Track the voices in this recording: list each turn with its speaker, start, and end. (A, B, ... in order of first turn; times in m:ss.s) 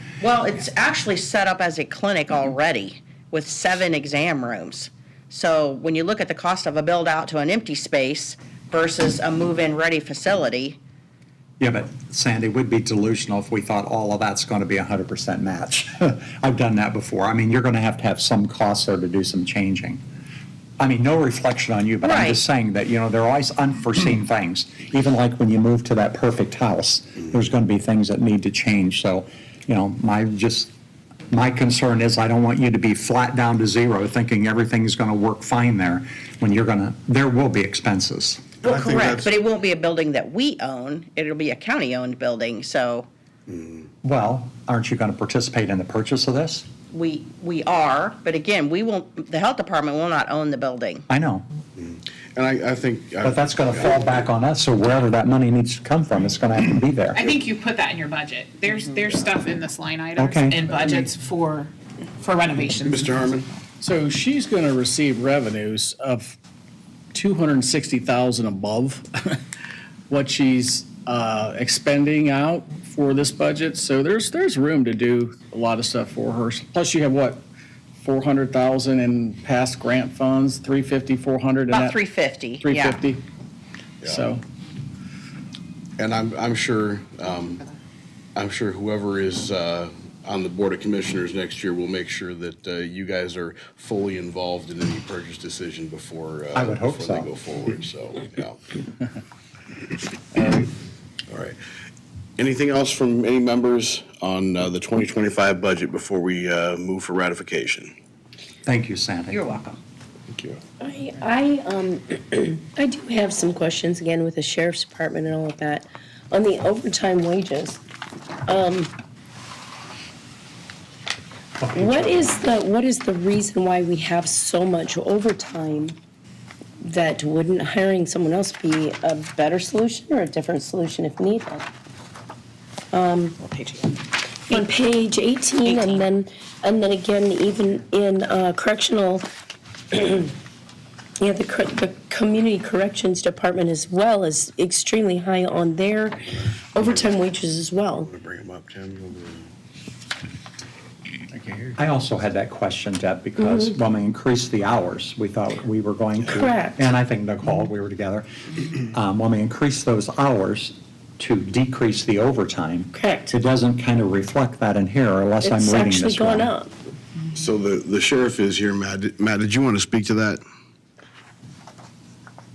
0:00.2-0:10.8 A
0:11.6-0:20.0 B
0:20.8-0:30.7 B
0:22.0-0:22.4 A
0:31.3-0:38.6 B
0:38.6-0:39.3 C
0:38.6-0:43.1 A
0:43.5-0:43.8 C
0:44.0-0:46.7 B
0:46.9-0:51.1 A
0:51.1-0:51.4 B
0:51.8-0:54.3 C
0:53.2-0:57.2 B
0:57.1-1:03.6 D
1:00.2-1:00.6 B
1:00.8-1:01.0 C
1:02.8-1:03.5 C
1:03.8-1:06.4 E
1:07.1-1:09.4 E
1:10.1-1:17.4 E
1:18.0-1:22.0 E
1:21.7-1:23.0 A
1:22.6-1:23.2 E
1:24.0-1:24.3 C
1:24.0-1:24.4 E
1:26.0-1:27.6 C
1:28.4-1:38.6 C
1:36.5-1:37.3 B
1:41.3-1:41.6 C
1:42.4-1:47.9 C
1:48.7-1:49.8 B
1:50.3-1:50.6 C
1:50.8-1:57.8 F
1:58.5-1:58.9 F
2:01.6-2:02.5 B
2:01.8-2:06.0 F
2:06.8-2:11.6 F
2:12.9-2:13.4 F
2:13.4-2:14.7 D
2:14.5-2:19.2 F
2:15.6-2:16.1 D
2:19.9-2:20.3 F
2:21.2-2:28.1 F
2:26.8-2:27.2 C
2:28.0-2:29.5 C
2:31.3-2:31.8 E
2:31.8-2:38.3 B
2:33.4-2:33.7 F
2:36.3-2:36.8 F
2:38.8-2:46.5 B
2:42.9-2:43.3 F
2:45.4-2:46.7 F
2:47.3-2:50.4 C